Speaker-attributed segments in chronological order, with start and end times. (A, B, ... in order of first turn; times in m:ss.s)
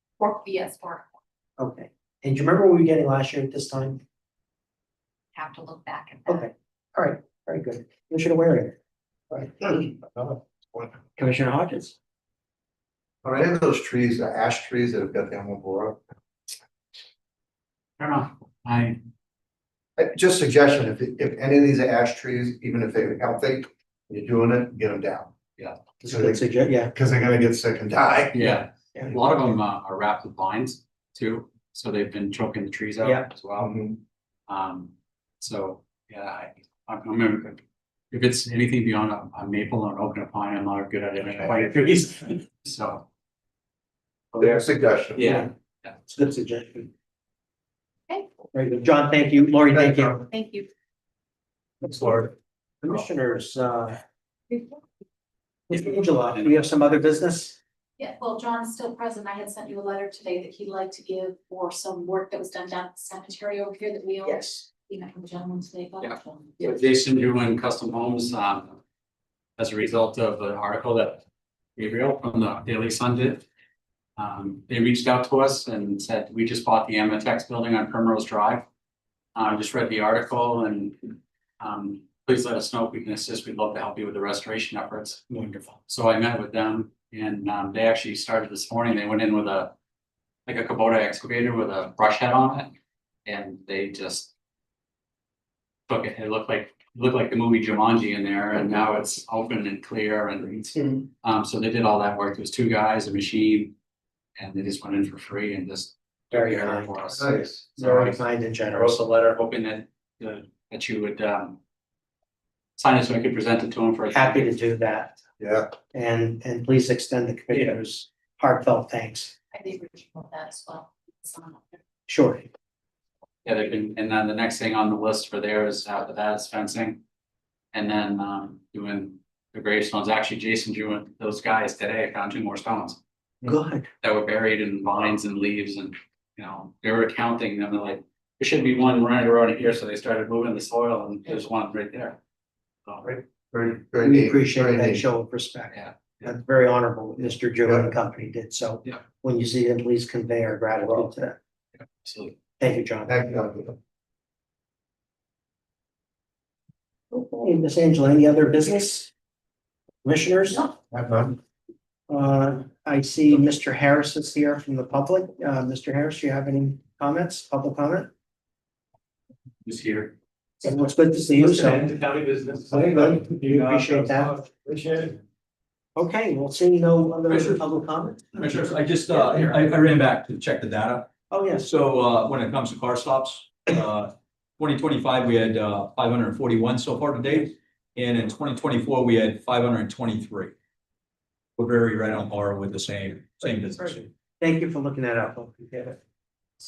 0:00.2-0:01.1 A
0:01.6-0:04.0 B
0:05.4-0:06.5 A
0:06.3-0:08.8 B
0:09.3-0:09.7 B
0:09.6-0:11.0 C
0:11.2-0:12.0 B
0:13.2-0:16.0 C
0:18.0-0:19.0 D
0:20.0-0:25.3 C
0:26.0-0:26.9 B
0:26.1-0:28.6 C
0:28.3-0:33.7 D
0:29.0-0:29.6 B
0:33.0-0:33.3 B
0:33.6-0:34.0 C
0:34.5-0:43.1 D
0:44.3-0:45.9 D
0:44.4-0:45.3 C
0:45.2-0:45.5 B
0:46.1-0:46.9 B
0:48.5-0:50.3 B
0:49.7-0:50.1 C
0:50.3-0:50.7 A
0:51.8-0:54.0 B
0:54.5-0:54.8 A
0:55.7-0:57.6 B
0:58.0-1:06.6 A
1:06.0-1:08.8 D
1:09.6-1:11.2 D
1:11.8-1:13.5 D
1:14.2-1:18.7 D
1:19.4-1:29.7 D
1:25.3-1:25.8 B
1:30.5-1:32.8 D
1:33.3-1:34.3 D
1:35.9-1:43.7 D
1:44.4-1:51.6 D
1:46.3-1:49.0 B
1:47.1-1:47.6 C
1:52.8-1:54.6 D
1:54.1-1:55.2 B
1:55.4-1:55.7 C
1:55.9-1:59.4 B
1:59.5-2:01.8 A
2:02.1-2:02.5 B
2:03.4-2:07.0 D
2:07.7-2:13.0 D
2:13.4-2:13.9 B
2:14.0-2:22.2 D
2:23.0-2:25.0 C
2:24.0-2:31.4 B
2:25.7-2:26.3 D
2:31.9-2:32.4 D
2:32.6-2:33.1 B
2:33.1-2:33.8 C
2:37.1-2:39.1 B
2:40.0-2:40.7 B
2:40.9-2:41.4 C
2:42.1-2:48.1 B
2:49.6-2:50.1 D
2:50.6-2:51.9 B
2:51.6-2:55.2 C
2:52.7-2:54.5 B
2:56.0-2:58.4 B
2:57.3-2:57.6 E
2:58.3-3:10.5 E
3:01.3-3:01.7 B
3:11.6-3:14.0 E
3:13.8-3:16.0 B